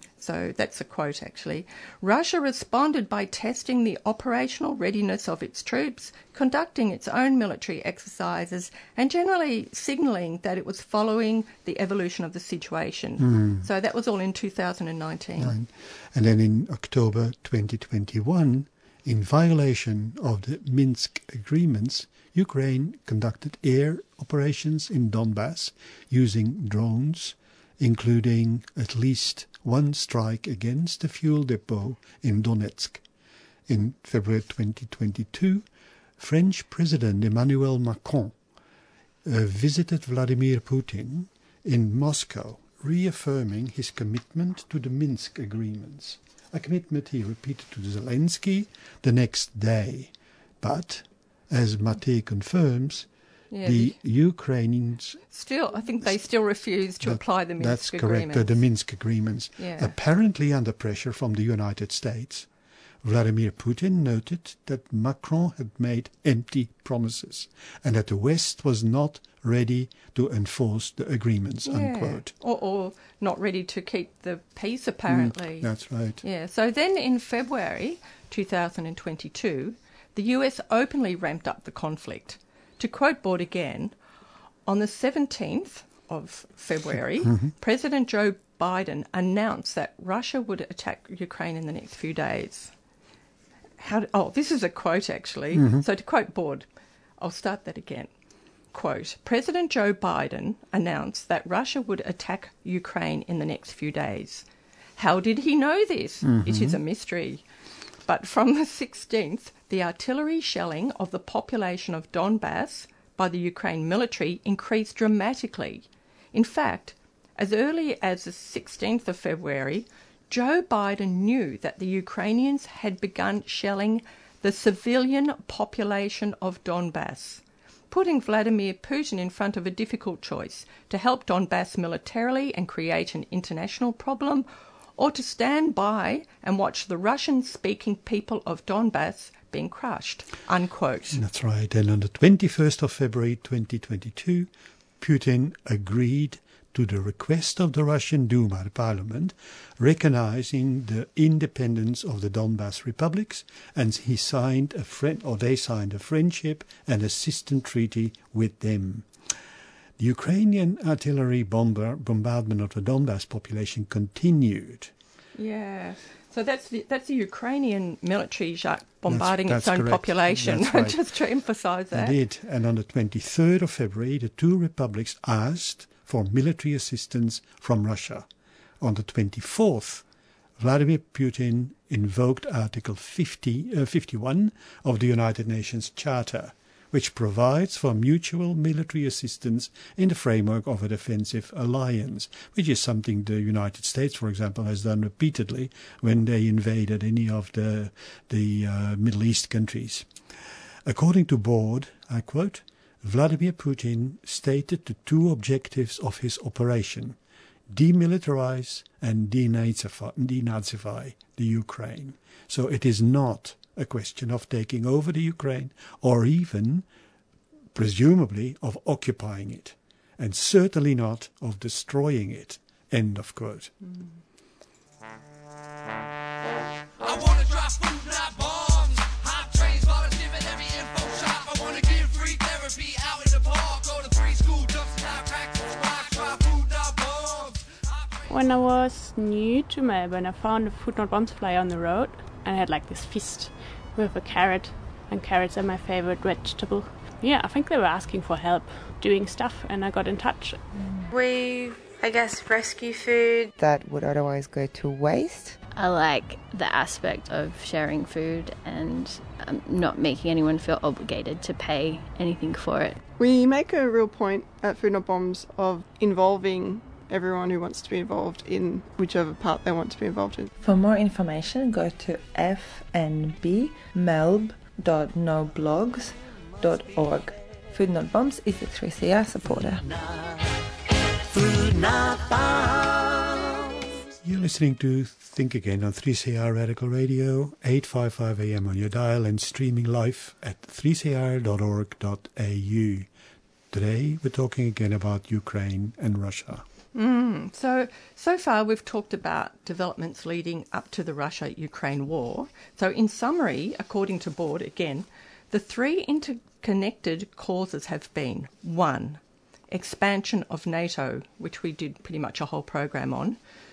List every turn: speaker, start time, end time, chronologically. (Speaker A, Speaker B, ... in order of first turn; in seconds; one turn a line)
Speaker A: 0.2-15.6
Speaker B: 13.2-13.7
Speaker B: 15.4-33.0
Speaker B: 33.7-35.6
Speaker B: 36.2-38.4
Speaker B: 39.2-53.1
Speaker A: 53.5-54.0
Speaker B: 53.6-55.2
Speaker A: 55.3-58.5
Speaker B: 57.0-62.5
Speaker A: 59.6-59.9
Speaker B: 63.0-72.3
Speaker A: 71.7-83.9
Speaker B: 75.1-76.2
Speaker A: 84.7-92.7
Speaker B: 87.2-87.5
Speaker A: 93.8-96.7
Speaker B: 95.5-95.8
Speaker A: 97.2-98.1
Speaker A: 98.7-104.5
Speaker A: 105.0-107.4
Speaker B: 106.2-106.8
Speaker A: 108.1-134.4
Speaker A: 135.0-141.2
Speaker B: 141.1-159.1
Speaker B: 160.0-164.9
Speaker A: 165.3-172.2
Speaker B: 169.1-171.0
Speaker B: 171.9-178.3
Speaker B: 178.8-180.0
Speaker B: 180.6-200.1
Speaker B: 200.8-207.2
Speaker B: 207.7-216.9
Speaker B: 217.7-223.7
Speaker C: 227.0-238.3
Speaker D: 238.3-250.6
Speaker E: 251.1-253.5
Speaker F: 253.6-255.6
Speaker G: 255.7-263.0
Speaker H: 263.2-270.5
Speaker I: 270.6-279.8
Speaker B: 284.2-293.1
Speaker B: 293.7-296.6
Speaker A: 296.9-313.4